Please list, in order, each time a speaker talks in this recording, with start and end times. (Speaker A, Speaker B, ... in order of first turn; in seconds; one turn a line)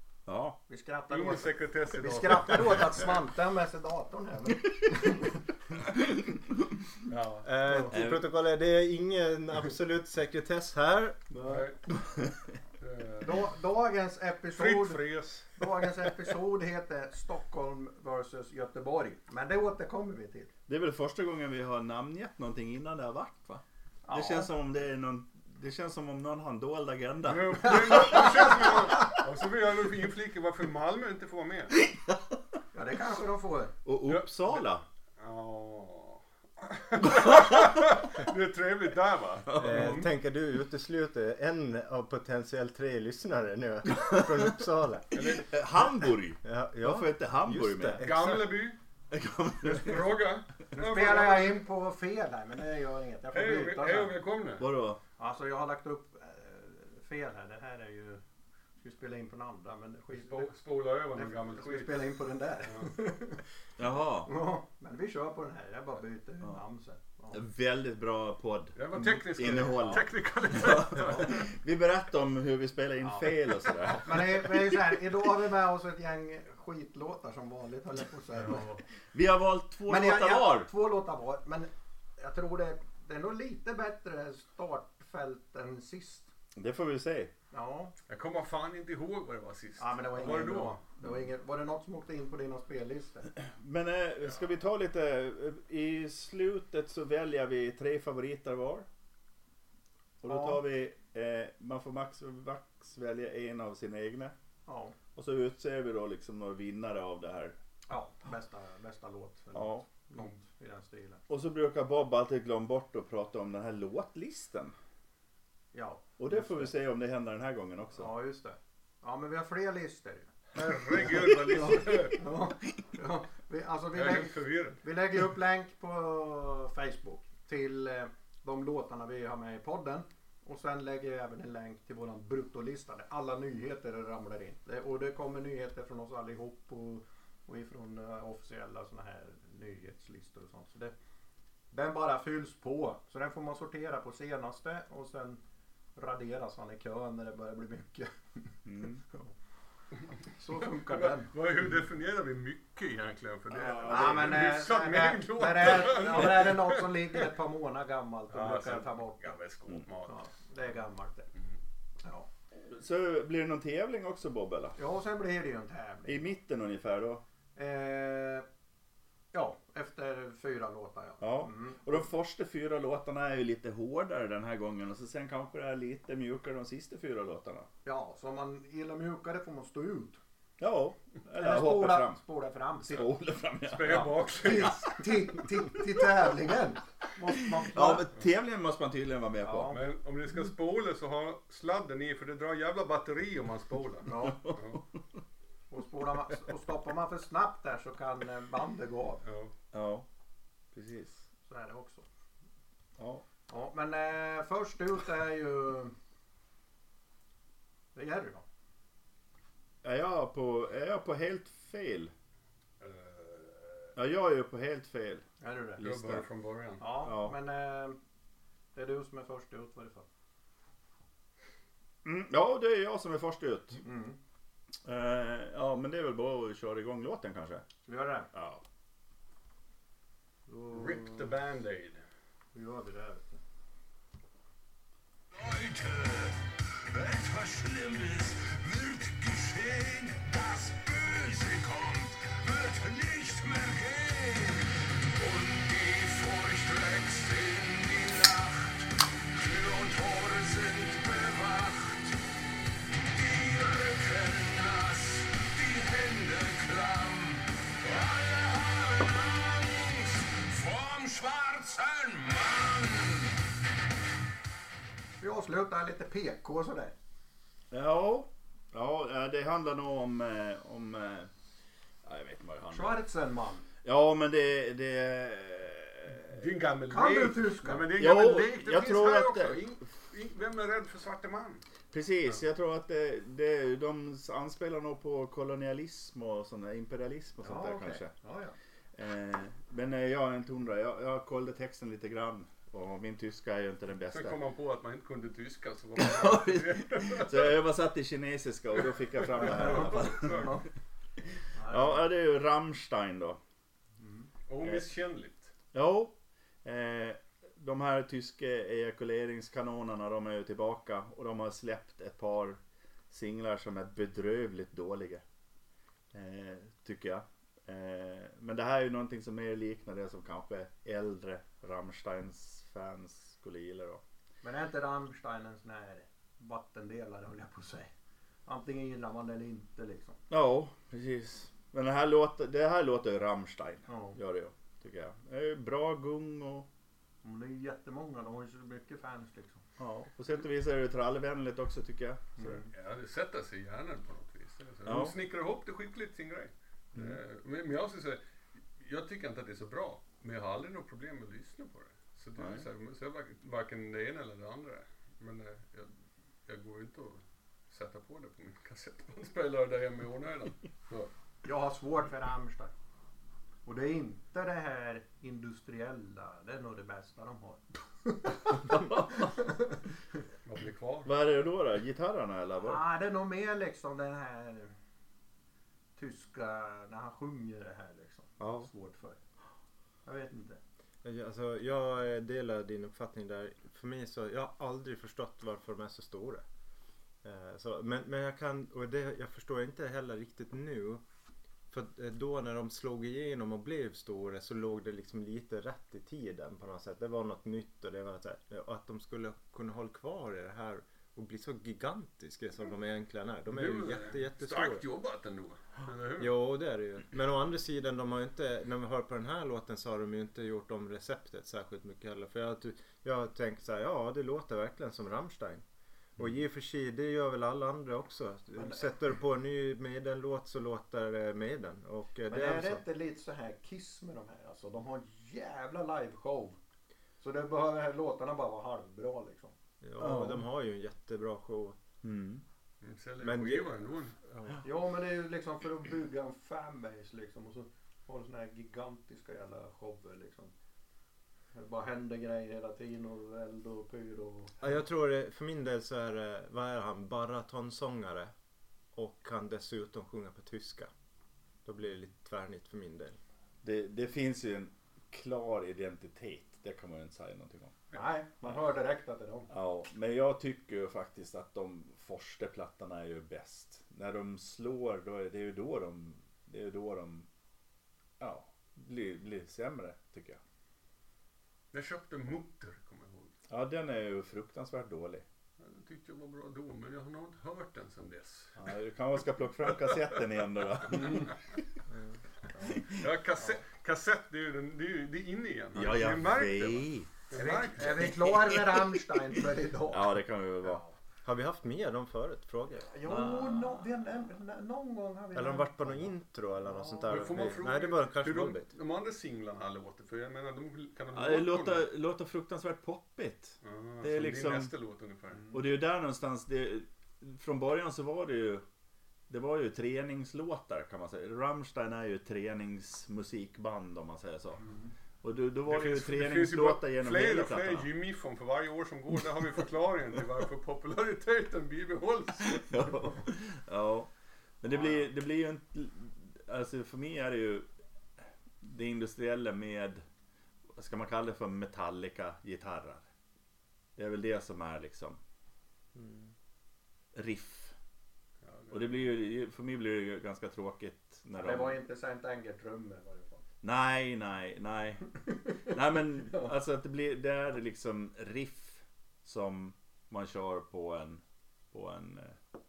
Speaker A: 0.3-0.6
Speaker B: 0.7-5.4
Speaker C: 1.1-2.9
Speaker A: 5.8-6.8
Speaker C: 7.1-7.9
Speaker D: 7.4-11.2
Speaker A: 7.9-8.3
Speaker B: 11.3-11.7
Speaker C: 11.5-11.8
Speaker A: 11.9-12.5
Speaker C: 12.8-13.3
Speaker B: 13.2-20.5
Speaker C: 14.5-15.6
Speaker A: 20.7-28.4
Speaker B: 24.1-24.5
Speaker C: 27.2-31.8
Speaker A: 31.8-32.4
Speaker B: 32.7-33.7
Speaker A: 33.9-34.8
Speaker C: 34.1-34.7
Speaker C: 35.2-40.1
Speaker A: 39.5-40.1
Speaker D: 39.5-45.1
Speaker A: 44.2-44.5
Speaker A: 45.1-48.0
Speaker C: 45.1-45.5
Speaker D: 46.4-48.6
Speaker C: 48.0-48.8
Speaker A: 49.1-50.1
Speaker C: 49.7-51.6
Speaker B: 50.8-54.2
Speaker C: 53.3-54.6
Speaker A: 54.6-55.0
Speaker B: 55.2-58.2
Speaker B: 58.8-60.5
Speaker C: 60.1-62.1
Speaker B: 61.1-63.4
Speaker C: 62.6-62.9
Speaker A: 63.8-64.3
Speaker B: 64.3-67.4
Speaker A: 67.3-74.8
Speaker C: 68.8-71.4
Speaker B: 69.7-70.0
Speaker B: 73.0-73.3
Speaker B: 73.9-78.7
Speaker C: 78.3-78.8
Speaker A: 79.1-80.7
Speaker B: 79.9-86.3
Speaker A: 86.5-87.3
Speaker B: 87.5-87.9
Speaker C: 88.1-90.8
Speaker B: 89.8-93.3
Speaker A: 93.3-98.9
Speaker A: 100.2-104.3
Speaker B: 100.3-100.6
Speaker B: 104.7-105.0
Speaker A: 105.2-107.6
Speaker B: 107.9-111.2
Speaker A: 109.5-109.9
Speaker A: 111.3-114.8
Speaker B: 115.7-116.7
Speaker A: 116.2-118.1
Speaker B: 118.0-120.3
Speaker C: 120.5-122.2
Speaker B: 121.2-140.9
Speaker C: 123.9-124.8
Speaker B: 141.7-145.4
Speaker B: 145.9-148.5
Speaker A: 148.7-149.0
Speaker B: 150.3-151.3
Speaker C: 150.5-157.3
Speaker A: 153.5-154.6
Speaker B: 153.8-159.4
Speaker C: 158.3-160.2
Speaker B: 160.1-161.3
Speaker B: 162.0-162.3
Speaker A: 162.7-164.8
Speaker B: 164.8-166.3
Speaker A: 166.1-167.2
Speaker B: 167.6-168.4
Speaker B: 169.3-171.8
Speaker A: 171.2-177.7
Speaker B: 177.8-180.2
Speaker A: 180.6-182.2
Speaker B: 181.3-183.1
Speaker A: 182.8-184.8
Speaker C: 183.7-185.0
Speaker B: 183.8-188.1
Speaker A: 185.4-185.9
Speaker A: 187.6-189.8
Speaker B: 189.4-189.8
Speaker C: 189.7-194.8
Speaker B: 194.0-194.5
Speaker A: 194.4-194.8
Speaker B: 195.7-199.2
Speaker C: 199.2-199.5
Speaker A: 199.7-200.1
Speaker A: 200.7-201.3
Speaker B: 201.5-202.1
Speaker A: 203.0-203.2
Speaker B: 203.5-205.9
Speaker B: 207.9-208.4
Speaker A: 209.8-212.1
Speaker C: 212.8-213.9
Speaker A: 214.0-215.2
Speaker B: 215.4-215.8
Speaker A: 215.8-216.3
Speaker C: 215.8-216.8
Speaker B: 216.8-218.0
Speaker A: 217.0-217.4
Speaker B: 218.7-220.1
Speaker A: 222.0-223.8
Speaker B: 223.8-224.2
Speaker A: 224.8-227.7
Speaker B: 227.9-228.3
Speaker A: 228.3-228.6
Speaker B: 230.5-231.3
Speaker C: 230.7-232.0
Speaker B: 232.5-233.4
Speaker E: 235.3-252.2
Speaker E: 253.1-263.5
Speaker B: 265.2-266.9
Speaker A: 267.7-271.3
Speaker A: 272.0-273.0
Speaker B: 272.7-273.6
Speaker A: 273.8-276.3
Speaker C: 276.3-281.6
Speaker B: 276.9-277.9
Speaker A: 277.9-279.7
Speaker A: 281.9-288.1
Speaker B: 287.4-288.6
Speaker A: 289.0-294.4
Speaker C: 294.1-297.5
Speaker A: 296.0-300.6
Speaker C: 299.2-300.6
Speaker B: 299.4-300.6
Speaker B: 301.6-302.0
Speaker A: 301.7-303.4
Speaker B: 304.0-304.3
Speaker C: 304.5-305.5
Speaker A: 305.7-312.6
Speaker A: 313.1-315.2
Speaker A: 316.1-324.0
Speaker B: 324.4-327.9
Speaker B: 328.4-330.2
Speaker A: 330.3-336.7
Speaker B: 333.9-334.2
Speaker B: 337.2-339.6
Speaker A: 339.8-342.6
Speaker B: 342.4-342.7
Speaker C: 342.7-348.2
Speaker A: 344.9-345.2
Speaker A: 346.9-347.2
Speaker C: 348.8-355.9
Speaker A: 352.4-352.7
Speaker C: 356.5-361.1
Speaker B: 361.4-362.7
Speaker B: 363.6-369.8
Speaker A: 368.7-369.3
Speaker C: 370.5-371.1
Speaker A: 371.1-372.8
Speaker B: 372.6-374.7
Speaker B: 375.9-379.2
Speaker B: 380.1-380.6
Speaker D: 381.0-386.4
Speaker D: 387.2-391.0
Speaker D: 391.7-404.8
Speaker C: 403.5-406.3
Speaker D: 406.2-415.6
Speaker D: 416.2-422.8
Speaker B: 418.6-418.9
Speaker B: 422.3-426.6
Speaker B: 427.2-429.5
Speaker D: 429.8-431.8
Speaker A: 430.0-430.4
Speaker A: 432.0-432.4
Speaker C: 432.8-434.2
Speaker D: 433.2-434.6
Speaker B: 434.6-440.5
Speaker B: 441.5-444.6
Speaker D: 444.6-448.3
Speaker D: 448.9-450.9
Speaker D: 451.6-453.2
Speaker A: 453.6-457.8
Speaker B: 457.9-459.5
Speaker A: 459.5-467.3
Speaker A: 468.2-470.4
Speaker C: 471.7-473.4
Speaker A: 473.5-475.2
Speaker C: 475.6-478.6
Speaker A: 478.6-481.6
Speaker C: 480.9-481.4
Speaker A: 482.6-483.1
Speaker C: 482.9-488.2
Speaker A: 485.7-487.1
Speaker B: 487.3-490.1
Speaker A: 488.0-489.0
Speaker A: 489.9-490.8
Speaker B: 490.6-490.9
Speaker D: 491.2-492.9
Speaker B: 492.9-497.6
Speaker A: 493.1-493.9
Speaker D: 495.3-498.7
Speaker C: 497.1-501.9
Speaker A: 501.1-504.7
Speaker C: 503.6-505.4
Speaker A: 505.5-508.6
Speaker A: 509.3-514.6
Speaker A: 515.2-517.9
Speaker C: 515.7-523.0
Speaker A: 522.4-524.1
Speaker A: 524.6-527.7
Speaker A: 528.6-530.0
Speaker A: 530.7-533.1
Speaker A: 534.0-535.2
Speaker D: 536.0-536.2
Speaker A: 537.1-537.8
Speaker C: 538.5-538.9
Speaker A: 538.7-541.8
Speaker B: 541.4-543.4
Speaker A: 543.6-552.4